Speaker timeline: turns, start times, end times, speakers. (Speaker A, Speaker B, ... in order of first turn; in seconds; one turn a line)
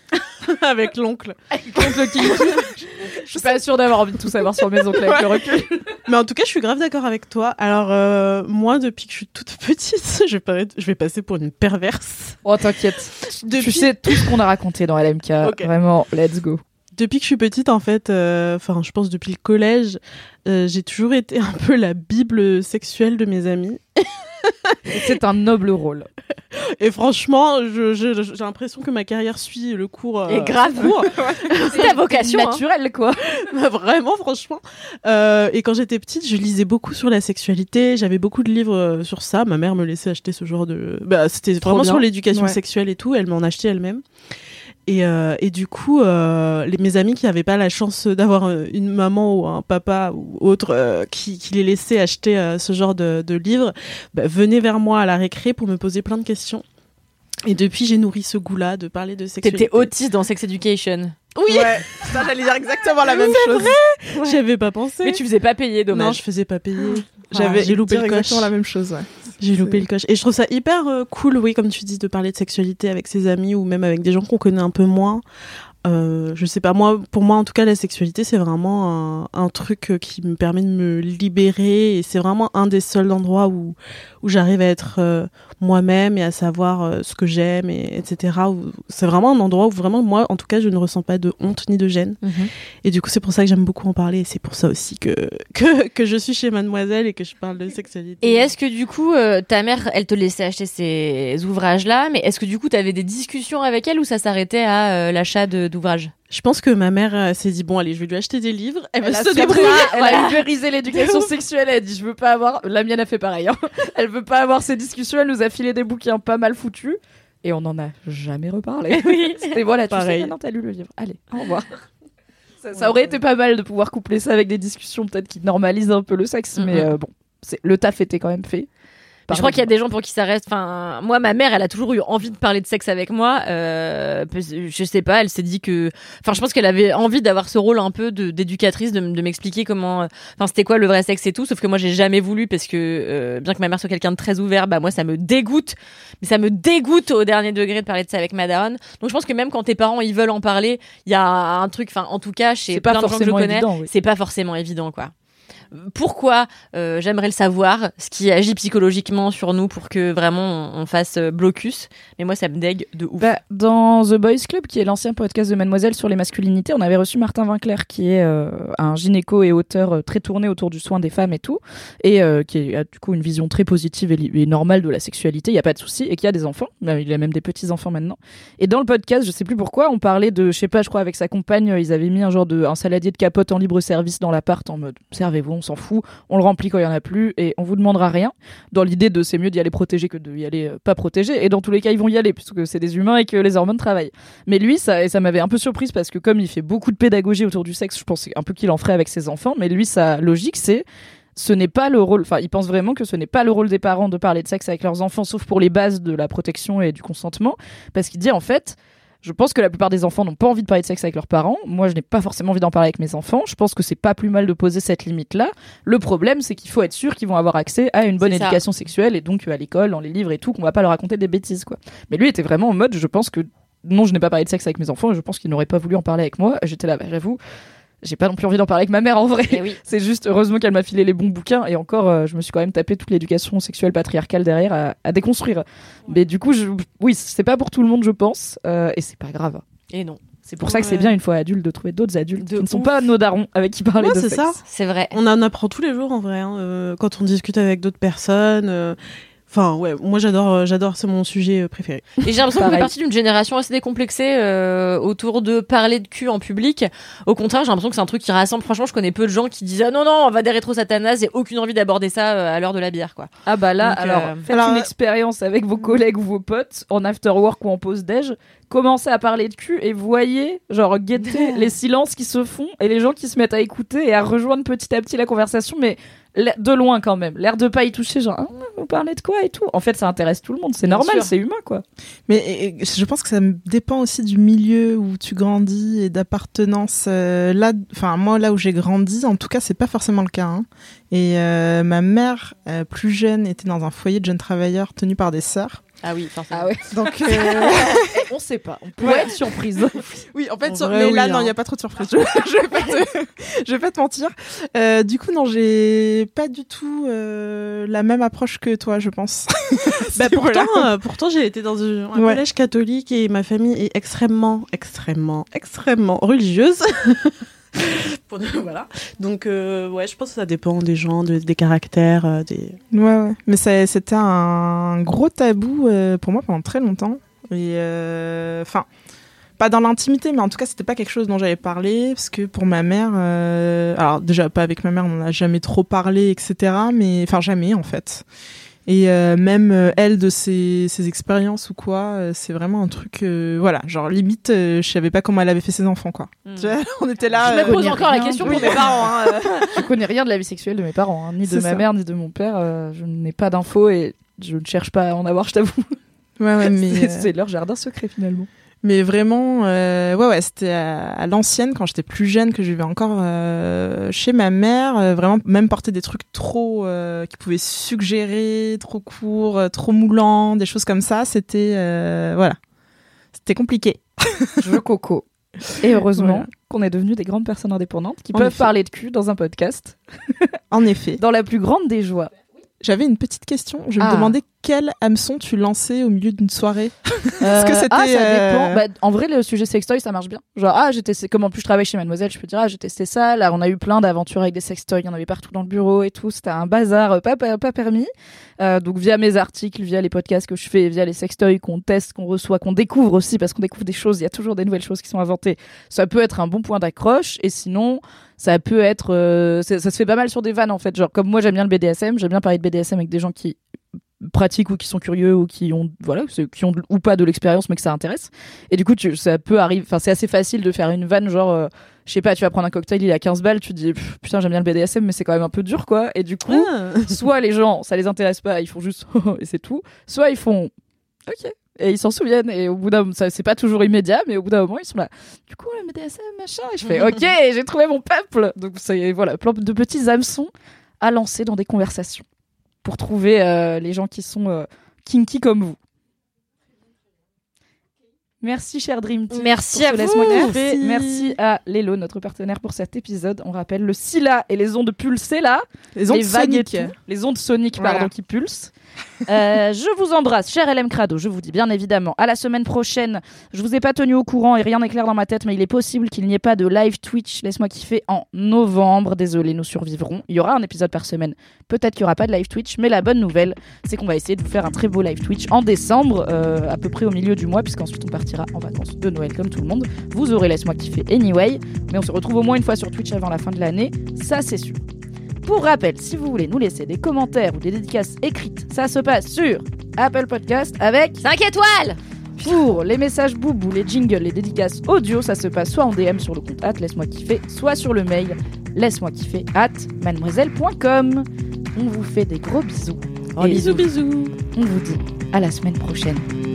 Speaker A: 0.3-2.8
Speaker B: 1.5-5.8
Speaker A: 4.8-5.3
Speaker A: 6.0-12.4
Speaker B: 12.4-16.6
Speaker A: 13.2-14.3
Speaker A: 15.4-15.7
Speaker A: 16.9-24.8
Speaker B: 24.9-26.1
Speaker A: 26.5-31.9
Speaker C: 30.3-32.6
Speaker D: 31.1-31.4
Speaker B: 31.7-33.2
Speaker A: 33.3-44.0
Speaker C: 41.6-42.0
Speaker D: 42.3-42.6
Speaker A: 44.9-56.6
Speaker A: 57.5-59.9
Speaker C: 59.4-61.3
Speaker A: 61.4-62.3
Speaker D: 61.5-63.8
Speaker A: 63.0-65.2
Speaker C: 63.4-64.4
Speaker C: 65.0-66.2
Speaker A: 65.9-68.5
Speaker D: 67.3-69.8
Speaker A: 69.4-75.2
Speaker A: 75.8-92.2
Speaker C: 92.2-92.5
Speaker A: 92.8-98.5
Speaker C: 98.2-106.1
Speaker A: 106.3-110.3
Speaker B: 109.0-121.7
Speaker C: 109.4-110.4
Speaker C: 110.9-111.3
Speaker C: 118.9-119.5
Speaker A: 119.9-120.3
Speaker B: 122.6-128.7
Speaker C: 126.6-126.9
Speaker B: 129.3-129.7
Speaker C: 129.3-155.1
Speaker B: 152.7-153.9
Speaker C: 155.7-163.3
Speaker B: 163.2-200.8
Speaker B: 201.4-227.4
Speaker C: 218.2-218.6
Speaker B: 228.0-239.6
Speaker C: 229.5-229.8
Speaker C: 239.9-241.1
Speaker B: 240.4-244.6
Speaker C: 242.4-242.9
Speaker A: 244.0-244.6
Speaker C: 244.7-245.2
Speaker A: 245.1-252.2
Speaker C: 252.2-264.4
Speaker B: 252.5-252.9
Speaker B: 263.4-281.8
Speaker D: 264.5-264.9
Speaker C: 271.2-271.7
Speaker C: 280.8-281.3
Speaker D: 282.3-295.8
Speaker C: 296.0-296.7
Speaker B: 296.5-300.0
Speaker D: 296.9-298.2
Speaker C: 297.2-298.0
Speaker D: 299.0-299.4
Speaker D: 300.0-310.9
Speaker A: 300.6-301.5
Speaker A: 310.1-322.8
Speaker D: 312.1-312.4
Speaker D: 322.9-328.9
Speaker D: 329.6-338.2
Speaker D: 338.9-349.6
Speaker C: 346.4-346.7
Speaker C: 347.4-349.9
Speaker B: 347.4-349.0
Speaker B: 349.7-355.9
Speaker D: 351.4-351.8
Speaker D: 356.4-357.3
Speaker B: 356.6-358.5
Speaker D: 358.8-372.6
Speaker D: 373.3-374.7
Speaker B: 374.6-375.2
Speaker B: 375.8-380.5
Speaker D: 375.8-376.5
Speaker D: 378.3-378.7
Speaker D: 380.7-381.2
Speaker B: 381.2-382.3
Speaker D: 382.8-388.8
Speaker B: 384.0-384.4
Speaker B: 387.4-398.1
Speaker B: 398.6-413.6
Speaker B: 414.2-430.7
Speaker A: 426.5-427.1
Speaker B: 431.3-442.2
Speaker B: 442.8-445.8
Speaker B: 448.4-458.7
Speaker C: 449.3-450.6
Speaker A: 450.3-451.3
Speaker D: 455.9-456.9
Speaker D: 457.8-458.1
Speaker B: 459.3-484.8
Speaker B: 485.4-491.2
Speaker C: 491.2-492.0
Speaker B: 492.4-503.8
Speaker C: 503.4-504.3
Speaker B: 504.6-506.2